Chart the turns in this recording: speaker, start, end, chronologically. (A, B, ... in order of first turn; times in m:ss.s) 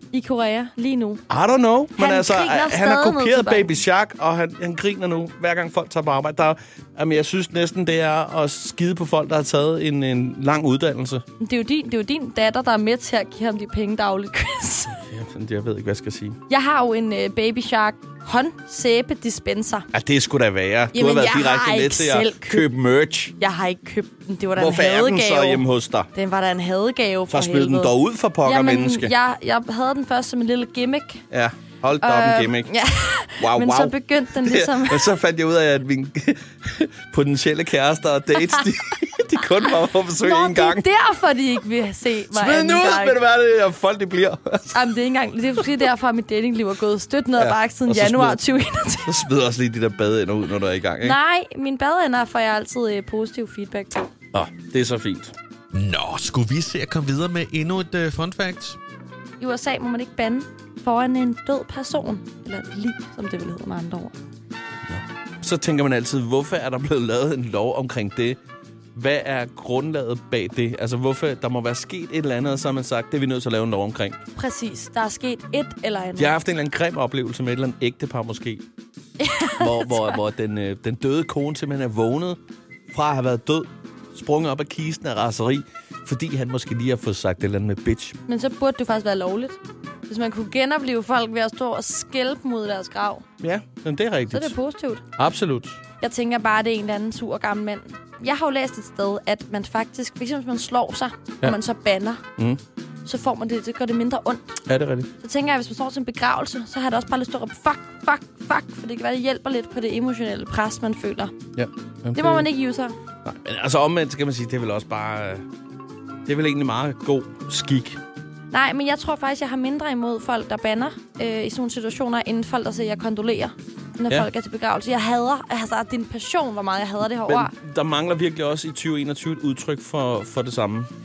0:00.1-0:01.2 A
0:01.3-0:11.2 B
0:02.0-0:03.7 A
0:11.4-0:15.0 A
0:14.9-0:16.4 B
0:16.5-0:19.9 A
0:19.9-0:23.3 B
0:20.9-0:22.7 A
0:23.4-0:31.2 A
0:24.6-0:26.1 B
0:27.3-0:29.1 B
0:31.3-0:32.7 B
0:32.0-0:35.1 A
0:33.4-0:40.9 B
0:40.2-0:43.2 A
0:42.3-0:44.9 B
0:44.7-0:49.1 A
0:47.4-0:48.4 B
0:49.0-0:51.2 B
0:51.0-0:54.1 A
0:54.3-0:55.3 B
0:55.7-0:58.8 C
0:59.4-1:04.1 A
1:04.9-1:08.4 B
1:08.9-1:14.2 B
1:14.4-1:16.4 A
1:16.2-1:18.6 B
1:19.2-1:20.2 A
1:19.6-1:22.4 B
1:22.9-1:28.2 B
1:28.3-1:33.2 A
1:33.4-1:34.5 B
1:34.3-1:35.0 A
1:35.2-1:35.8 B
1:36.0-1:42.2 A
1:43.0-1:44.5 A
1:44.7-1:45.1 B
1:45.2-1:51.3 A
1:51.6-1:52.5 B
1:52.1-1:52.9 A
1:53.2-1:55.4 B
1:56.2-1:58.0 B
1:58.5-2:07.5 A
2:07.2-2:10.9 B